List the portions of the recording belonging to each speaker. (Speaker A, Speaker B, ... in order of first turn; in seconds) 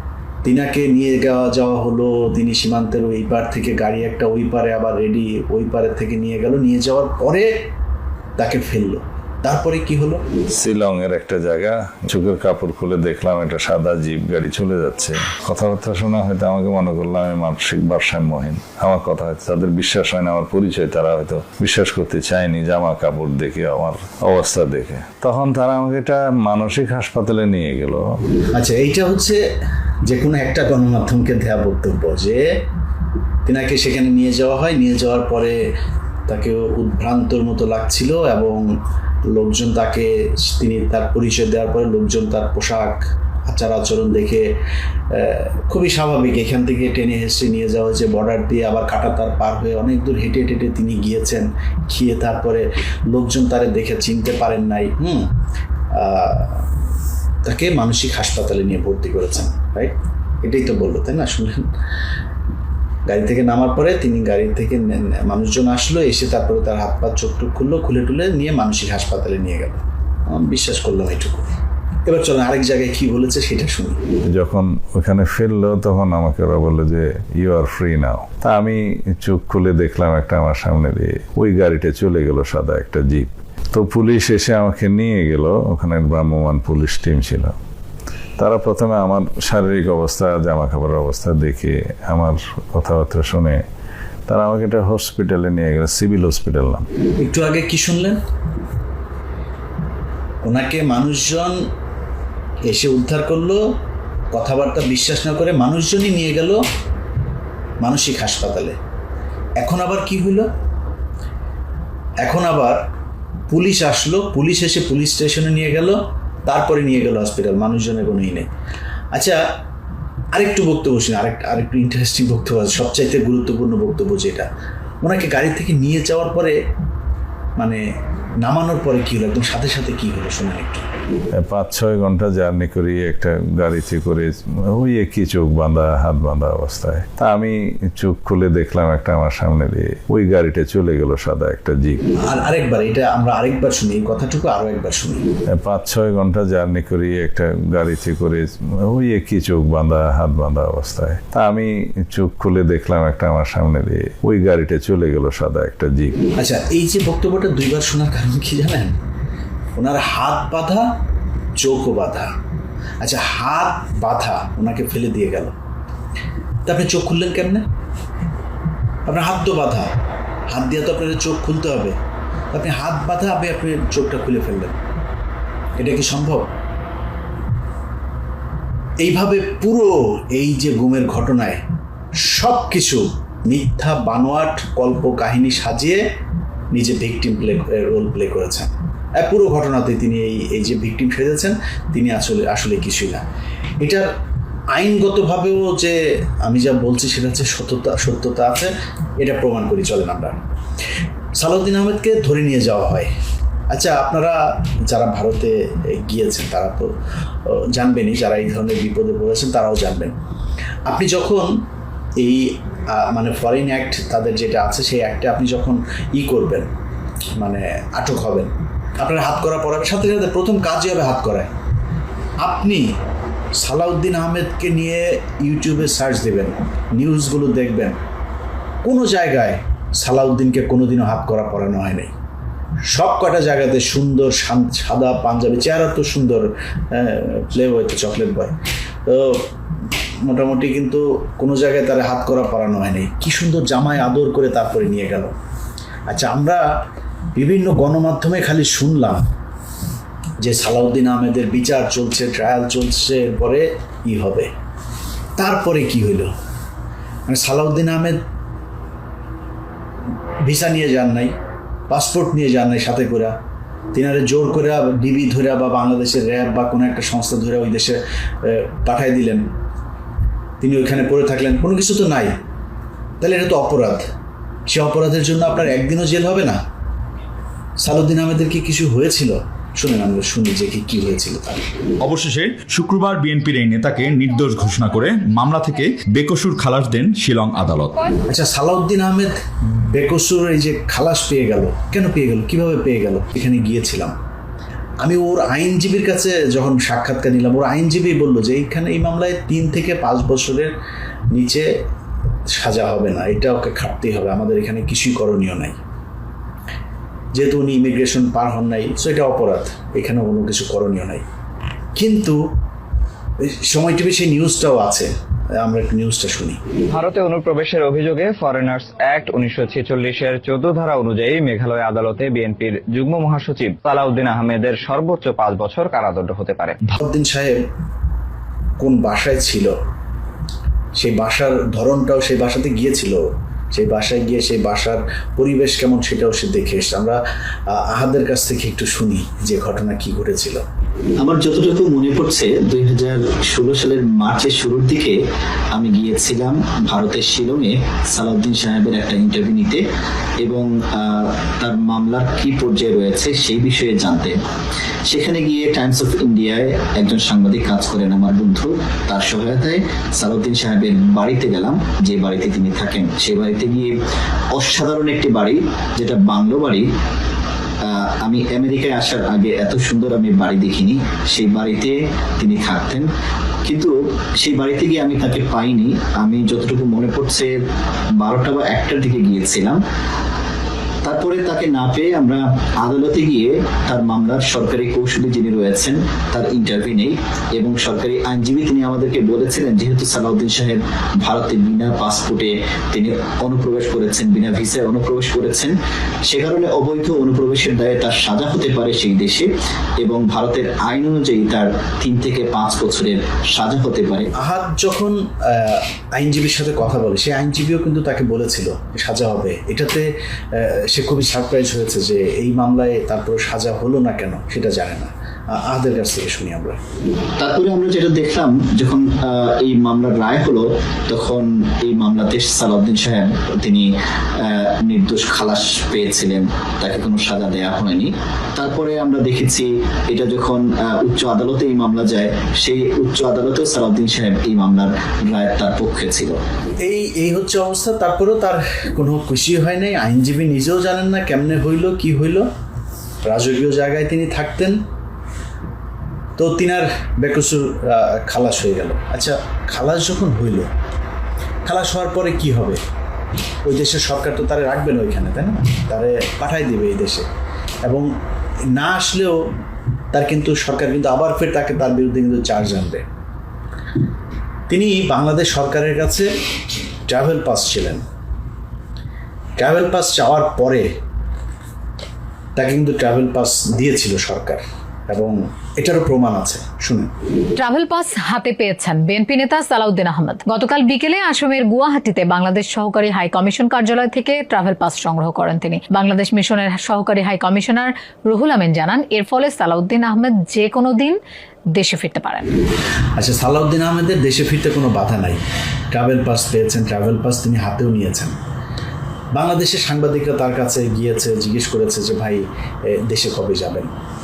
Speaker A: 0.4-7.5, 8.4-10.2, 28.5-29.4, 30.1-32.4, 33.5-35.6, 36.3-38.7, 39.3-44.4, 45.1-55.3, 55.9-56.8, 57.4-61.7, 63.0-71.5, 72.0-74.0, 97.2-98.2, 100.4-101.5, 102.6-103.6, 104.3-106.6, 107.8-108.7, 109.6-110.5, 112.2-112.8, 113.5-118.5, 120.3-124.5, 125.0-126.5, 127.5-127.8, 128.4-130.8, 142.2-145.2, 156.4-158.9, 159.7-160.8, 161.6-162.3, 163.0-165.5, 166.7-167.6, 169.1-169.9, 170.5-171.9, 172.5-174.8, 175.8-176.5, 179.0-181.6, 182.2-186.0, 186.7-193.2, 193.8-194.1, 194.7-200.4, 201.3-203.1, 203.7-206.9, 207.4-210.1, 210.9-211.5, 212.2-216.7, 217.4-218.5, 219.0-221.5, 222.4-222.8, 223.6-227.9, 228.8-232.1, 232.9-238.5, 239.1-239.5, 240.2-245.3, 246.1-246.6, 247.3-249.2, 250.4-254.5, 255.4-256.3, 257.3-258.1, 260.4-261.3, 261.9-263.3, 263.9-269.4, 270.6-272.3, 273.2-274.0, 274.7-276.6, 277.8-281.6, 288.3-294.1, 295.0-300.7, 301.3-301.6, 302.5-305.8, 307.3-311.2, 311.9-312.4, 313.4-316.6, 327.0-327.6, 328.8-329.7, 330.9-333.2, 333.7-340.6, 404.4-416.8, 436.8-442.4, 443.2-444.8, 446.4-450.7, 451.6-452.8, 453.6-457.3, 458.7-459.4, 460.1-463.0, 464.7-466.3, 467.1-468.0, 469.6-470.9, 472.6-477.1, 493.2-495.4, 495.9-498.3, 499.3-502.4, 502.9-503.9
Speaker B: 10.5-28.0, 74.3-87.5, 88.4-93.6, 94.3-96.8, 131.4-142.0, 145.6-156.2
Speaker C: 282.0-288.0
Speaker D: 316.9-326.9
Speaker E: 341.2-345.2, 345.7-349.8, 350.4-354.4, 355.1-363.9, 364.5-366.9, 367.9-373.1, 373.6-377.5, 378.2-379.8, 381.0-395.7, 396.2-399.5, 400.0-404.3, 417.4-423.9, 424.4-436.4
Speaker F: 477.6-491.2, 491.8-492.5